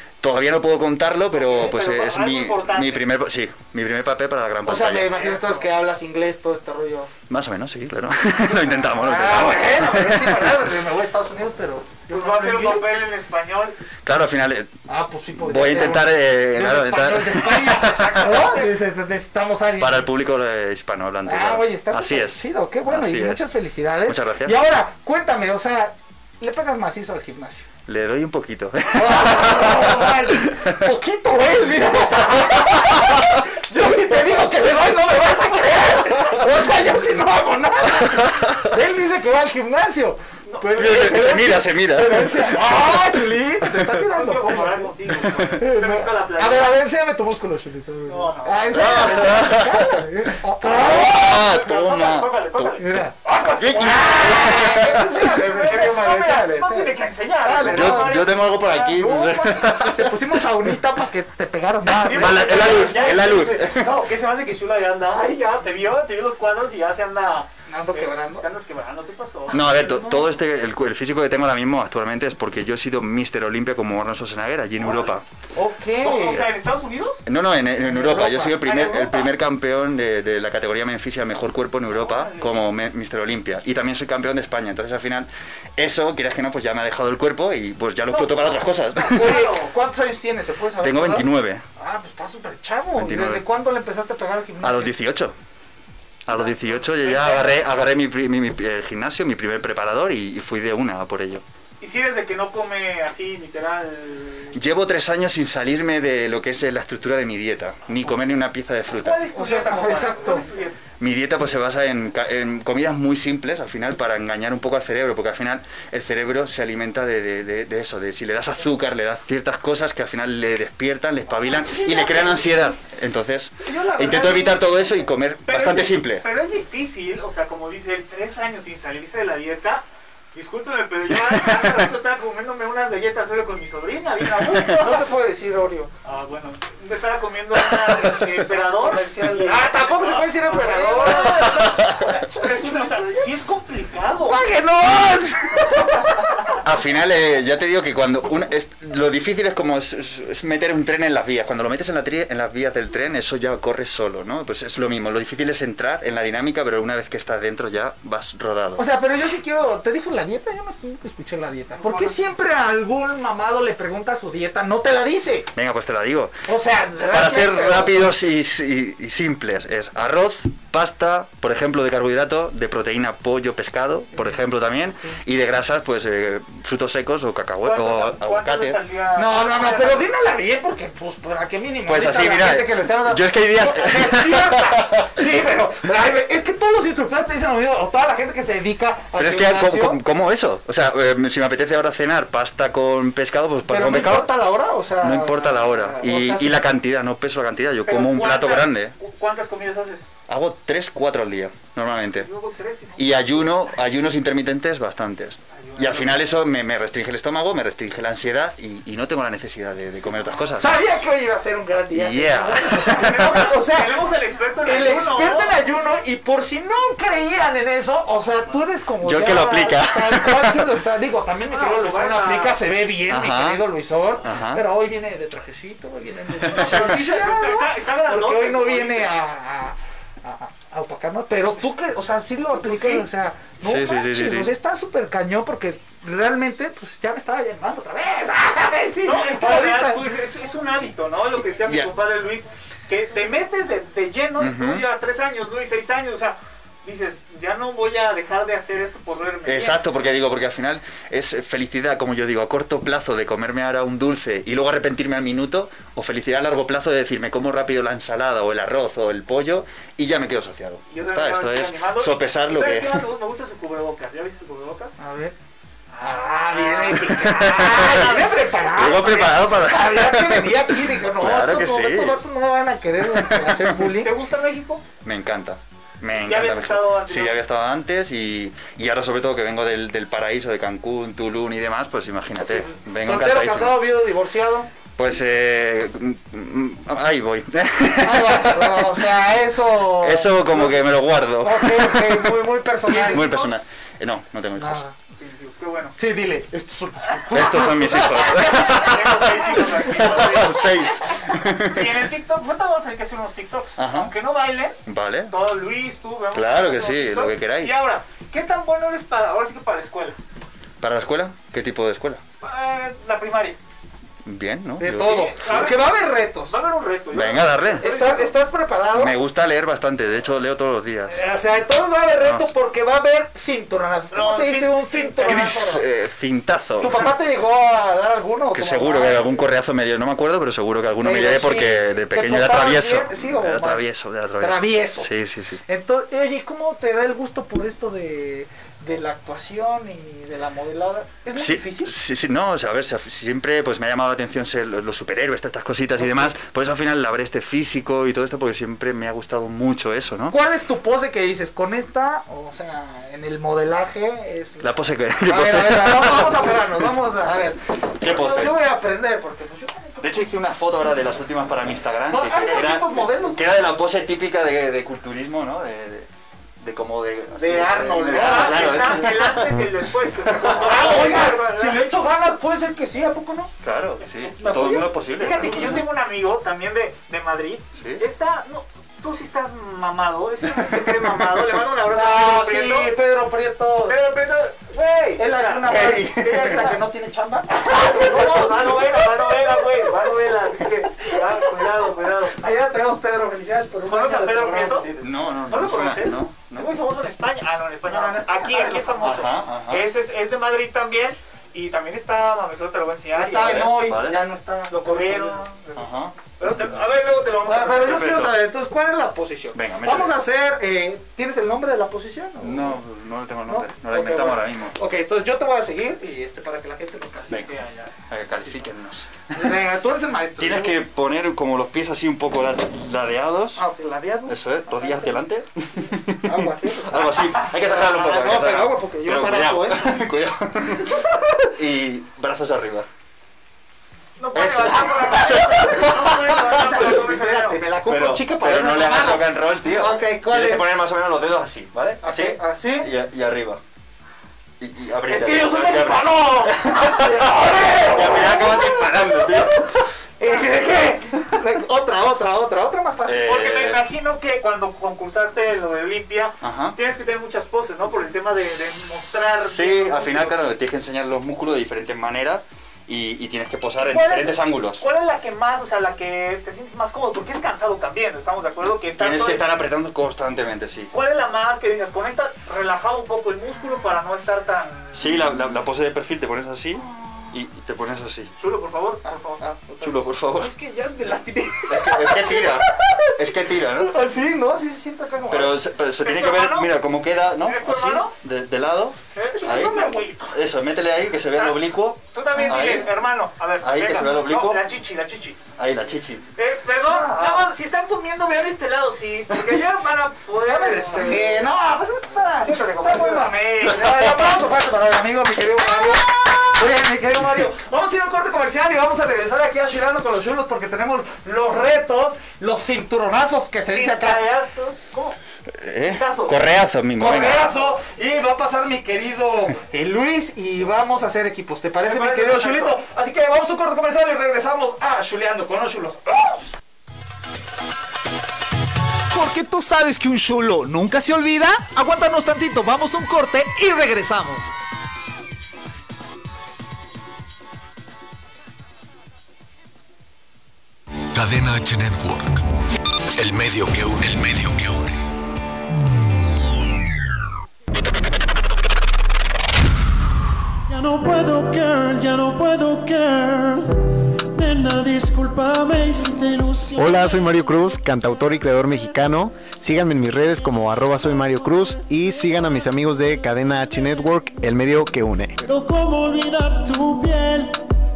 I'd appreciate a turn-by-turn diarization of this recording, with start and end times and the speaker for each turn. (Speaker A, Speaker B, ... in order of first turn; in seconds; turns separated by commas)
Speaker A: 0.2-5.2, Speaker B: 1.3-3.1, Speaker C: 4.6-7.1, Speaker B: 5.1-5.6, Speaker A: 7.3-10.6, Speaker C: 8.5-12.9, Speaker B: 12.1-13.8, Speaker A: 14.0-14.7, Speaker C: 14.9-20.1, Speaker A: 15.4-18.5, Speaker A: 19.8-23.4, Speaker C: 21.2-27.7, Speaker A: 24.1-24.6, Speaker A: 27.9-30.8, Speaker C: 28.9-44.9, Speaker A: 40.7-42.6, Speaker B: 44.0-46.7, Speaker C: 45.5-51.4, Speaker B: 48.1-49.3, Speaker A: 48.7-50.0, Speaker A: 50.6-52.8, Speaker B: 50.7-52.9, Speaker C: 52.8-63.3, Speaker B: 53.5-58.8, Speaker A: 53.5-55.3, Speaker A: 57.6-60.4, Speaker B: 61.9-70.4, Speaker A: 62.0-64.0, Speaker C: 67.7-68.5, Speaker A: 69.5-75.2, Speaker B: 74.8-75.2, Speaker C: 75.5-76.5, Speaker B: 76.0-77.2, Speaker A: 77.2-89.4, Speaker C: 77.8-78.6, Speaker B: 78.6-79.3, Speaker B: 81.9-82.7, Speaker B: 88.1-89.7, Speaker C: 89.0-94.9, Speaker A: 90.8-91.6, Speaker A: 93.0-93.4, Speaker A: 94.6-95.3, Speaker A: 96.2-101.4, Speaker B: 96.3-97.7, Speaker B: 101.8-104.6, Speaker A: 104.5-109.3, Speaker B: 108.9-110.8, Speaker C: 109.3-110.5, Speaker A: 111.0-126.2, Speaker B: 121.5-122.5, Speaker C: 123.6-124.8, Speaker B: 125.5-135.0, Speaker C: 134.7-135.9, Speaker B: 136.0-144.4, Speaker C: 138.2-143.2, Speaker A: 141.4-142.1, Speaker C: 144.3-146.4, Speaker A: 146.6-158.8, Speaker C: 158.8-165.5, Speaker B: 161.8-162.1, Speaker A: 165.5-166.3, Speaker C: 166.5-168.1, Speaker A: 167.1-178.8, Speaker B: 177.6-180.1, Speaker C: 179.2-190.0, Speaker A: 181.8-185.1, Speaker A: 189.2-194.3, Speaker C: 193.7-196.7, Speaker A: 195.0-198.9, Speaker B: 197.8-200.1, Speaker A: 200.3-202.3, Speaker B: 202.1-203.5, Speaker A: 203.0-210.7, Speaker B: 205.6-206.3, Speaker C: 210.5-214.0, Speaker A: 211.9-213.4, Speaker B: 212.9-215.6, Speaker C: 214.6-240.1, Speaker A: 219.0-220.7, Speaker B: 221.5-222.6, Speaker A: 223.1-223.6, Speaker A: 224.2-224.6, Speaker A: 226.4-227.0, Speaker B: 226.5-229.1, Speaker B: 232.5-233.0, Speaker A: 233.6-234.5, Speaker B: 239.0-249.8, Speaker A: 241.6-241.9, Speaker A: 244.4-244.9, Speaker A: 249.4-263.0, Speaker B: 260.9-264.9, Speaker C: 265.0-265.3, Speaker B: 265.9-268.3, Speaker C: 266.0-274.1, Speaker A: 267.0-272.2, Speaker A: 273.0-273.9, Speaker B: 274.0-274.8, Speaker A: 275.0-283.8, Speaker B: 276.2-277.4, Speaker C: 282.4-284.7, Speaker A: 284.9-289.0, Speaker C: 288.0-290.8, Speaker A: 290.0-292.4, Speaker C: 291.4-293.4, Speaker B: 292.9-293.6, Speaker A: 292.9-294.8, Speaker C: 294.5-294.9, Speaker B: 295.2-295.9, Speaker C: 296.0-298.7, Speaker A: 297.3-302.1, Speaker B: 298.3-300.6, Speaker B: 301.6-304.8, Speaker A: 303.8-304.1, Speaker A: 304.9-305.3, Speaker B: 305.3-310.2, Speaker A: 306.3-307.8, Speaker A: 310.8-312.2, Speaker B: 312.4-313.6, Speaker A: 314.2-315.5, Speaker C: 314.8-316.6, Speaker B: 314.9-315.9, Speaker B: 316.4-318.3, Speaker A: 317.1-317.8, Speaker C: 317.8-319.1, Speaker A: 318.9-321.2, Speaker C: 321.1-325.8, Speaker A: 322.2-322.5, Speaker B: 324.1-325.7, Speaker A: 325.2-327.1, Speaker C: 326.8-329.5, Speaker A: 328.5-335.6, Speaker C: 331.0-333.8, Speaker C: 334.4-335.1, Speaker C: 335.6-341.9, Speaker A: 341.3-350.4, Speaker C: 346.0-346.3, Speaker C: 350.3-354.7, Speaker A: 354.6-356.7, Speaker C: 355.2-360.3, Speaker A: 358.0-358.6, Speaker A: 360.0-366.1, Speaker C: 362.1-363.4, Speaker B: 362.5-362.8, Speaker A: 366.6-371.3, Speaker C: 367.3-369.2, Speaker B: 368.1-371.8, Speaker C: 370.5-373.5, Speaker A: 373.6-375.9, Speaker B: 373.7-382.9, Speaker C: 374.4-375.6, Speaker A: 377.7-378.0, Speaker A: 380.6-381.4, Speaker C: 381.9-384.0, Speaker B: 383.8-386.8, Speaker C: 385.2-389.5, Speaker A: 385.6-386.6, Speaker B: 387.7-392.4, Speaker C: 392.3-395.1, Speaker B: 393.9-394.9, Speaker A: 395.0-396.8, Speaker B: 395.5-403.7, Speaker C: 397.9-399.1, Speaker A: 399.0-399.9, Speaker C: 403.1-405.4, Speaker A: 403.4-404.2, Speaker B: 404.7-408.2, Speaker A: 405.7-406.2, Speaker C: 407.4-412.8, Speaker A: 407.8-408.4, Speaker A: 409.5-410.2, Speaker A: 412.4-414.8, Speaker C: 413.5-417.8, Speaker A: 418.1-419.5, Speaker C: 419.3-420.8, Speaker A: 420.4-423.6, Speaker C: 423.5-425.2, Speaker A: 424.3-432.9, Speaker C: 426.2-429.9, Speaker B: 434.2-437.6, Speaker A: 434.3-437.0, Speaker C: 434.8-440.7, Speaker A: 437.8-443.6, Speaker C: 442.0-442.9, Speaker A: 444.6-449.8, Speaker C: 445.1-449.5, Speaker C: 450.2-453.4, Speaker A: 453.1-453.8, Speaker B: 453.2-460.4, Speaker A: 456.4-456.8, Speaker A: 459.1-464.8, Speaker B: 463.8-469.4, Speaker A: 469.0-470.9, Speaker B: 470.9-475.3, Speaker A: 474.9-478.3, Speaker B: 478.4-479.4, Speaker C: 479.0-485.6, Speaker A: 479.8-480.5, Speaker A: 481.7-484.0, Speaker A: 485.3-492.9, Speaker B: 486.0-486.8, Speaker B: 487.4-488.1, Speaker B: 489.1-489.7, Speaker C: 489.2-490.4, Speaker B: 491.3-495.4, Speaker A: 493.6-494.6, Speaker A: 495.6-496.2, Speaker B: 496.4-501.4, Speaker C: 496.9-497.5, Speaker C: 500.4-514.2, Speaker B: 502.4-503.3, Speaker B: 503.9-504.1, Speaker B: 513.7-515.1, Speaker A: 515.5-517.5, Speaker B: 515.8-516.4, Speaker C: 517.0-526.5, Speaker B: 521.8-522.8, Speaker D: 529.1-534.5, Speaker E: 541.1-542.4, Speaker E: 543.1-545.0, Speaker F: 550.7-553.8, Speaker F: 554.3-558.8, Speaker G: 556.7-565.3, Speaker F: 561.0-562.6, Speaker F: 563.7-564.1, Speaker F: 565.4-567.6